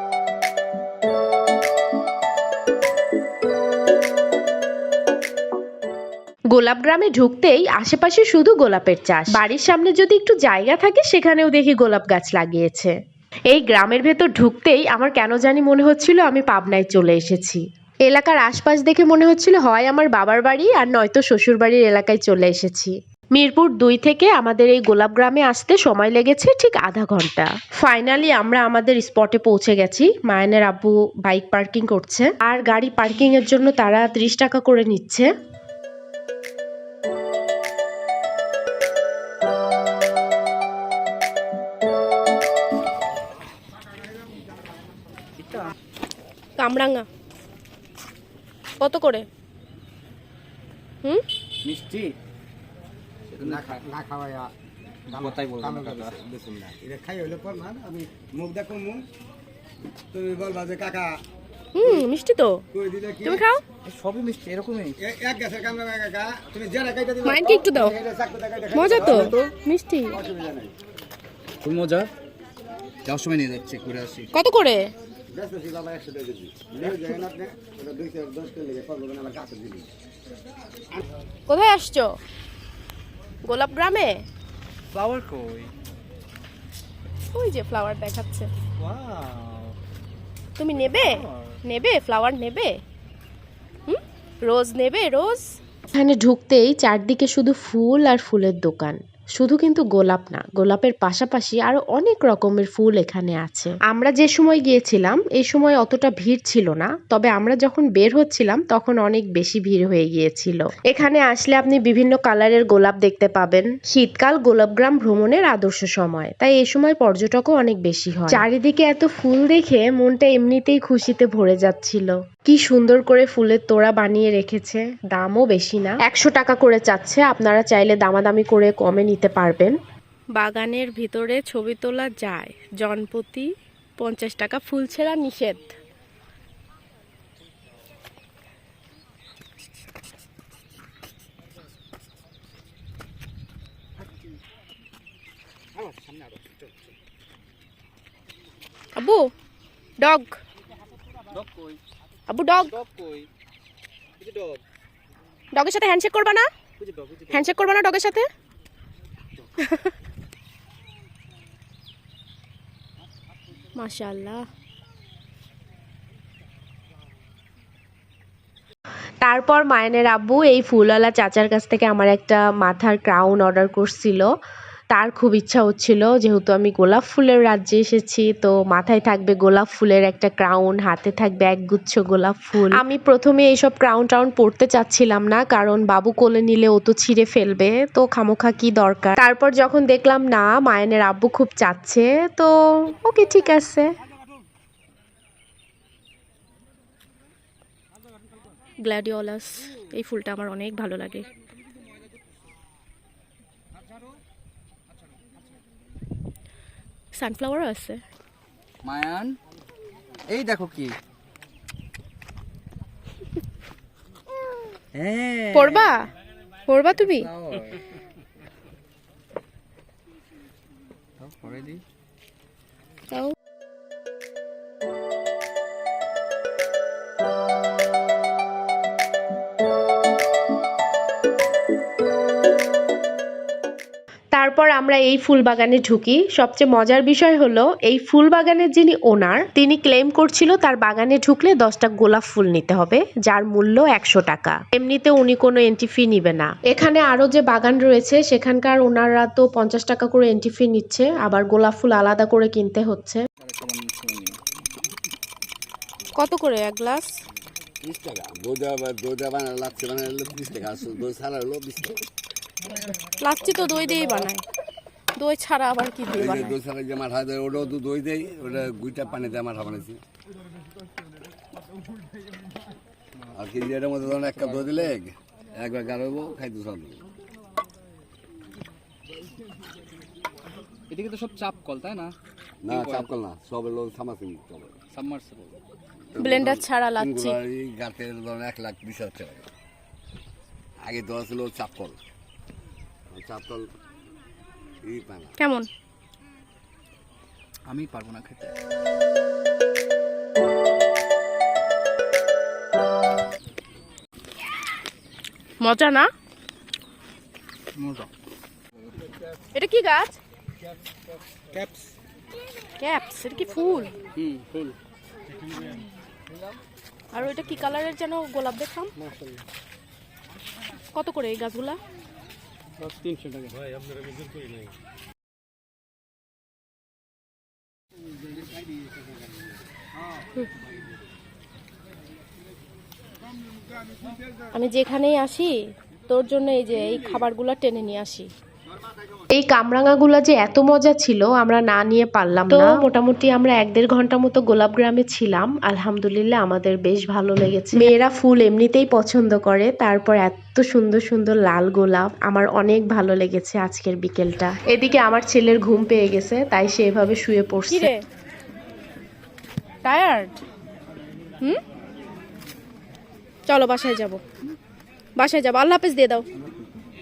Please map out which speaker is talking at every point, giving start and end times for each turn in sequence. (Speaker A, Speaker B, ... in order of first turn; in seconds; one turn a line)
Speaker A: 6.5-13.0
Speaker A: 13.5-35.3
Speaker B: 45.4-45.7
Speaker C: 46.6-47.1
Speaker C: 48.8-49.3
Speaker B: 51.6-52.2
Speaker B: 53.3-53.9
Speaker D: 54.0-54.5
Speaker B: 55.1-56.3
Speaker D: 56.8-59.0
Speaker D: 60.1-61.2
Speaker C: 61.7-62.6
Speaker D: 62.8-63.1
Speaker C: 63.2-63.6
Speaker B: 63.8-65.0
Speaker D: 65.1-67.2
Speaker C: 67.2-68.0
Speaker D: 68.0-69.3
Speaker C: 68.7-70.2
Speaker D: 70.3-70.7
Speaker B: 71.6-72.1
Speaker B: 73.0-74.3
Speaker C: 74.3-74.9
Speaker D: 75.3-79.8
Speaker C: 81.5-82.2
Speaker C: 83.4-84.2
Speaker B: 84.9-85.7
Speaker C: 87.3-88.5
Speaker B: 88.8-89.7
Speaker C: 90.6-92.8
Speaker B: 91.0-91.5
Speaker C: 93.9-95.5
Speaker A: 95.9-129.8
Speaker C: 130.3-135.8
Speaker B: 145.8-146.7
Speaker C: 148.9-149.3
Speaker C: 150.0-150.4
Speaker B: 151.3-151.8
Speaker C: 152.3-152.7
Speaker B: 152.6-153.3
Speaker B: 154.2-154.6
Speaker C: 155.5-156.5
Speaker B: 156.8-157.6
Speaker C: 157.3-158.3
Speaker C: 159.6-159.9
Speaker C: 163.8-164.4
Speaker A: 169.2-174.3
Speaker A: 174.9-193.9
Speaker C: 198.8-201.3
Speaker C: 207.1-208.0
Speaker B: 208.8-209.4
Speaker B: 210.3-210.9
Speaker B: 214.9-216.0
Speaker C: 215.5-216.1
Speaker C: 216.7-217.3
Speaker B: 217.0-217.8
Speaker B: 221.2-221.8
Speaker C: 223.1-223.3
Speaker A: 234.3-253.2
Speaker B: 253.4-254.4
Speaker C: 256.2-257.1
Speaker E: 257.8-262.1
Speaker C: 263.2-264.4
Speaker C: 265.1-266.6
Speaker E: 266.1-270.0
Speaker E: 273.3-277.0
Speaker B: 274.1-274.8
Speaker B: 280.9-282.1
Speaker E: 282.6-284.8
Speaker B: 282.7-283.1
Speaker B: 284.9-285.6
Speaker E: 286.1-289.5
Speaker C: 286.2-287.4
Speaker E: 290.8-292.0
Speaker E: 293.1-293.7
Speaker E: 294.8-295.4
Speaker C: 295.4-295.7
Speaker B: 297.7-298.5
Speaker C: 305.6-306.1
Speaker B: 307.8-308.1
Speaker C: 309.5-310.2
Speaker C: 312.8-313.9
Speaker B: 314.2-314.8
Speaker C: 317.1-318.9
Speaker B: 319.0-319.4
Speaker C: 320.9-321.8
Speaker B: 322.8-323.6
Speaker C: 334.5-335.6
Speaker C: 336.1-338.3
Speaker A: 339.3-357.9
Speaker C: 342.5-342.8
Speaker C: 357.7-358.0
Speaker C: 359.8-360.4
Speaker C: 363.5-364.2
Speaker C: 365.2-366.2